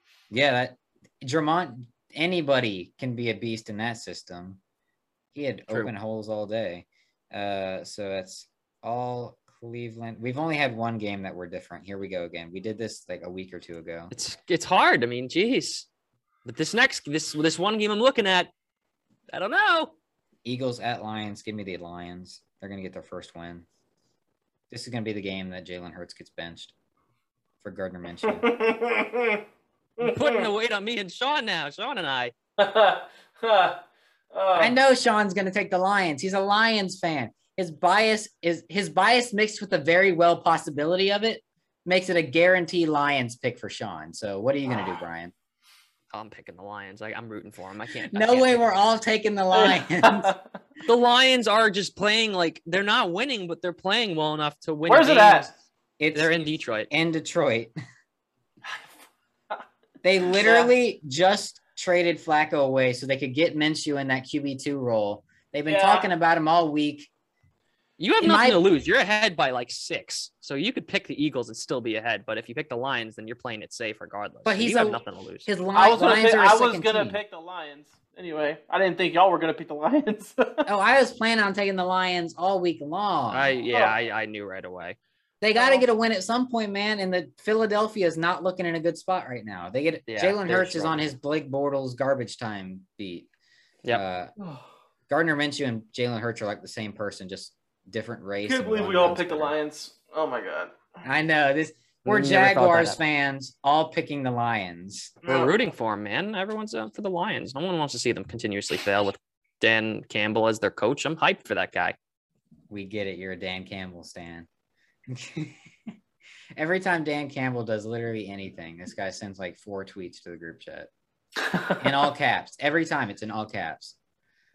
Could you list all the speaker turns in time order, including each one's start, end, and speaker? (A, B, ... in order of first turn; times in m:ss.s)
0:00.3-0:04.6 A
0:05.3-0:14.1 A
0:14.1-0:15.9 B
0:16.4-0:18.5 B
0:19.3-0:19.9 B
0:20.4-0:23.6 A
0:24.7-0:26.7 A
0:27.6-0:28.5 A
0:28.2-0:29.4 C
0:30.0-0:30.5 C
0:30.0-0:32.3 B
0:32.6-0:33.8 C
0:34.3-0:34.7 C
0:34.5-0:45.3 A
0:46.1-0:48.9 B
0:48.1-0:50.3 A
0:49.5-0:50.4 C
0:50.8-0:55.5 B
0:54.9-0:55.5 C
0:56.0-0:56.4 A
0:56.1-0:56.9 B
0:56.9-0:57.7 A
1:00.0-1:07.1 A
1:00.3-1:00.7 C
1:05.7-1:06.1 C
1:08.0-1:15.5 B
1:08.2-1:08.6 A
1:14.4-1:17.2 A
1:15.7-1:20.7 C
1:20.6-1:23.6 A
1:23.3-1:25.0 B
1:25.4-1:33.3 A
1:25.5-1:25.8 C
1:30.1-1:31.0 B
1:33.9-1:34.3 A
1:35.1-1:39.5 A
1:38.4-1:40.7 C
1:41.0-1:45.2 A
1:42.0-1:43.0 B
1:45.2-1:45.5 C
1:45.2-1:52.0 B
1:52.7-1:54.5 A
1:55.1-1:55.6 A
1:56.6-2:00.9 A
2:01.7-2:04.0 A